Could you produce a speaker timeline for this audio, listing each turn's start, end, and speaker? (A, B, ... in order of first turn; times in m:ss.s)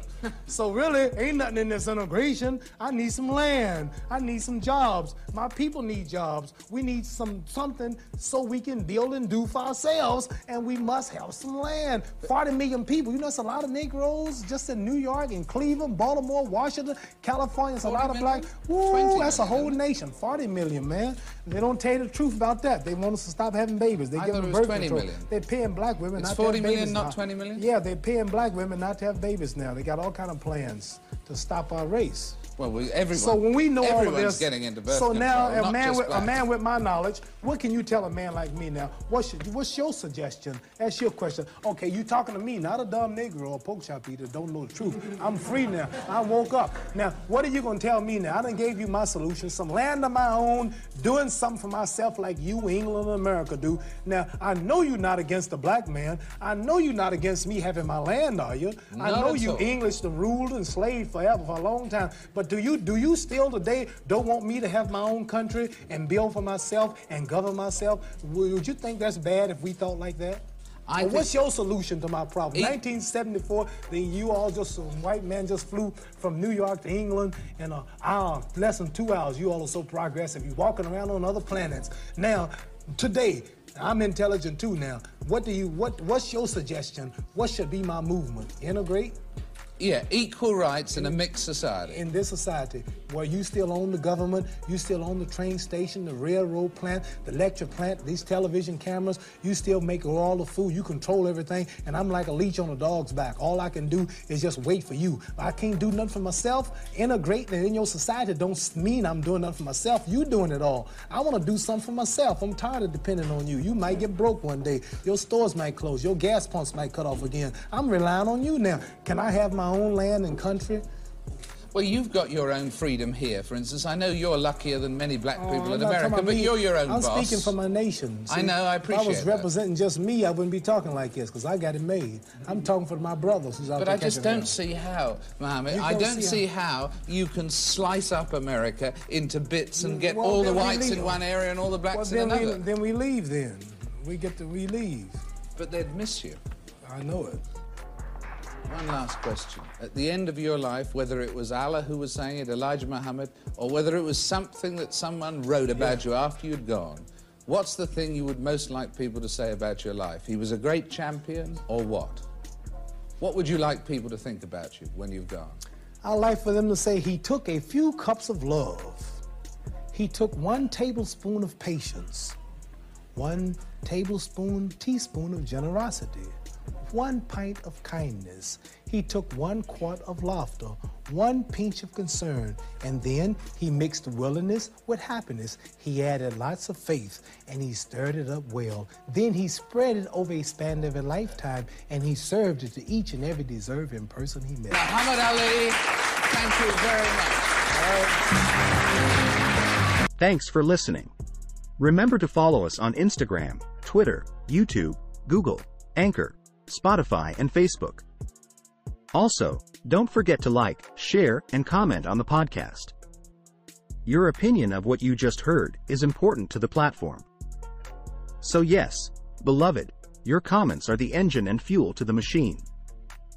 0:00.5-0:32.4 A
0:17.8-0:19.8 B
0:24.2-0:25.3 B
0:26.2-0:27.6 B
0:32.6-0:36.3 B
0:33.1-1:10.4 A
0:58.9-0:59.8 B
1:10.9-1:11.3 B
1:11.0-1:29.2 A
1:29.8-1:32.0 B
1:30.9-1:31.2 A
1:31.9-2:00.8 A
2:01.7-2:07.5 B
2:05.4-2:14.6 A
2:08.3-2:09.5 B
2:13.8-2:22.6 B
2:15.7-2:16.5 A
2:19.8-2:21.2 A
2:21.9-2:25.2 A
2:25.6-2:26.4 B
2:26.8-2:27.4 A
2:28.7-2:42.2 B
2:35.7-2:36.0 A
2:43.2-2:45.6 B
2:46.0-2:49.2 A
2:49.9-2:52.4 A
2:53.2-2:56.3 A
2:56.9-3:14.9 A
3:14.7-3:17.8 B
3:17.8-3:18.1 A
3:20.2-3:21.1 C
3:21.8-3:28.0 C
3:29.1-3:32.9 C
3:34.1-3:37.3 C
3:38.4-3:42.7 C